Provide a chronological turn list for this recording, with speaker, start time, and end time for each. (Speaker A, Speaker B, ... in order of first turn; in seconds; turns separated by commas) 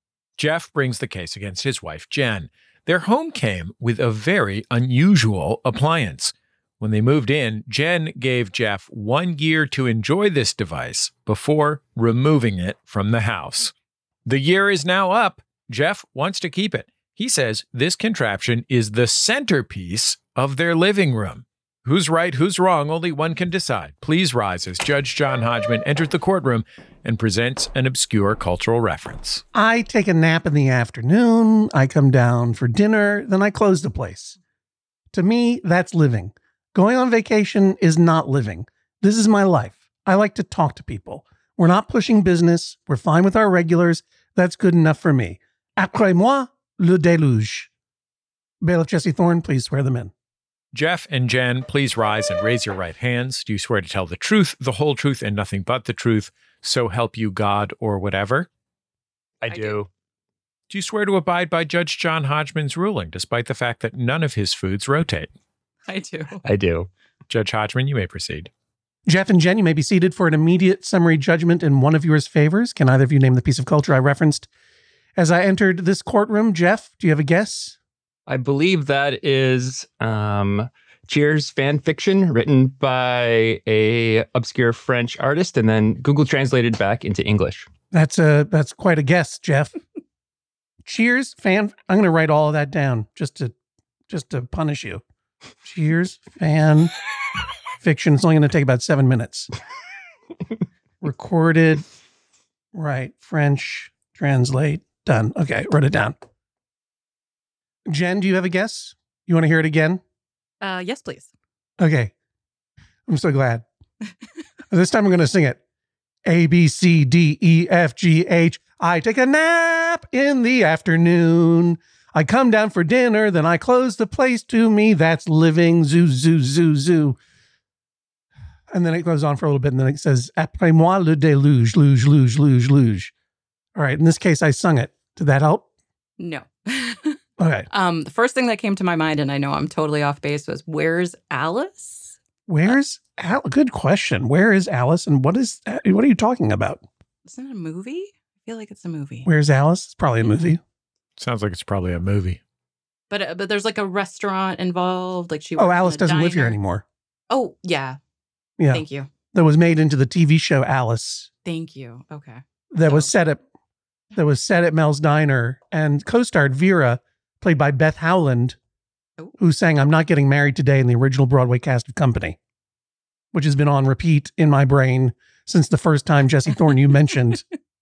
Speaker A: 0.4-13.7, Speaker A: 14.2-29.4, Speaker B: 29.5-34.4, Speaker B: 35.1-47.7, Speaker B: 48.6-50.1, Speaker A: 50.7-58.5, Speaker C: 59.4-59.9, Speaker D: 59.5-59.8, Speaker A: 60.7-65.3, Speaker D: 65.9-66.4, Speaker C: 66.4-66.9, Speaker A: 67.3-68.5, Speaker B: 69.1-74.5, Speaker B: 75.2-77.8, Speaker C: 78.3-87.7, Speaker B: 87.9-89.7, Speaker B: 90.8-93.5, Speaker B: 94.1-95.0, Speaker B: 95.6-96.9, Speaker B: 97.8-99.5, Speaker B: 101.0-101.8, Speaker B: 102.7-106.2, Speaker B: 107.9-110.0, Speaker D: 110.6-111.3, Speaker B: 111.8-112.1, Speaker B: 113.1-113.7, Speaker B: 114.7-115.6, Speaker B: 116.2-127.2, Speaker B: 128.7-133.1, Speaker B: 133.8-135.7, Speaker D: 136.2-137.2, Speaker B: 137.4-137.7, Speaker D: 137.7-142.1, Speaker B: 142.5-146.8, Speaker D: 147.2-149.3, Speaker B: 149.2-150.6, Speaker D: 150.2-150.5, Speaker A: 151.2-152.4, Speaker D: 153.1-156.6, Speaker B: 155.6-156.8, Speaker D: 157.3-158.0, Speaker B: 158.6-161.3, Speaker D: 158.7-159.1, Speaker D: 161.4-163.1, Speaker B: 162.7-163.4, Speaker B: 164.1-168.6, Speaker B: 169.4-172.4, Speaker B: 173.3-177.4